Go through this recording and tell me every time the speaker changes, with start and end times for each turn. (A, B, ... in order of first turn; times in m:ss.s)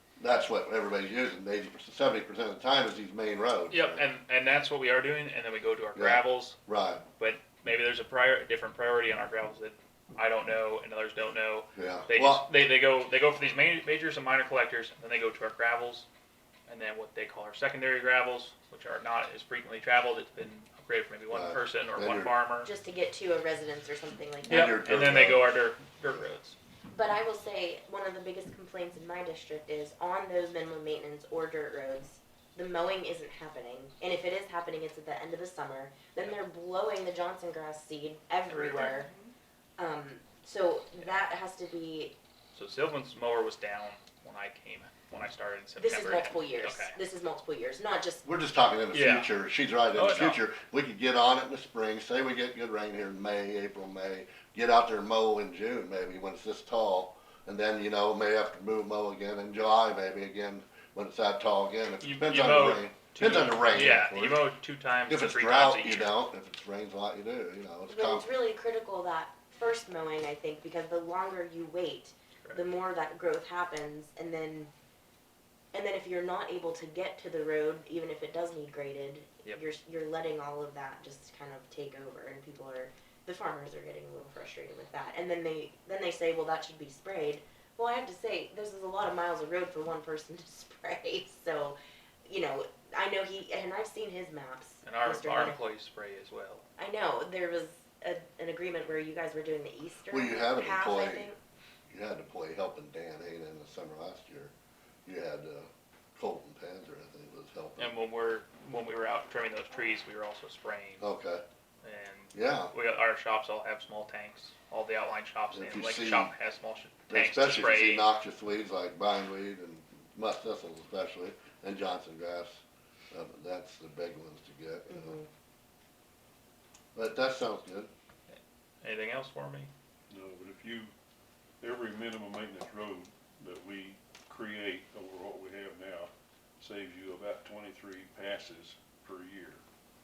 0:00.2-0:04.0 A
0:03.7-0:06.6 B
0:05.9-0:07.0 A
0:07.2-0:16.1 B
0:11.8-0:12.5 A
0:16.7-0:22.7 B
0:21.3-0:22.3 A
0:22.6-0:24.8 C
0:24.4-0:25.5 A
0:24.5-0:26.6 B
0:26.9-0:39.1 C
0:38.5-0:39.0 B
0:39.8-0:42.2 C
0:42.5-0:47.0 B
0:45.8-0:48.2 C
0:48.2-1:04.5 A
0:48.9-0:49.3 B
0:49.9-0:50.4 B
1:02.0-1:06.1 B
1:05.1-1:08.3 A
1:07.9-1:14.7 C
1:15.7-1:35.6 C
1:34.8-1:36.6 B
1:36.8-1:41.4 C
1:40.1-1:41.3 A
1:41.9-1:44.5 A
1:45.1-1:47.9 A
1:47.8-1:51.0 B
1:51.0-1:51.4 A
1:51.8-1:58.0 B
1:52.3-1:52.7 A
1:55.5-1:56.3 A
1:57.1-2:05.2 A
2:04.9-2:05.3 C
2:07.0-2:07.9 A
2:08.3-2:09.7 B
2:10.1-2:10.9 D
2:11.6-2:19.6 D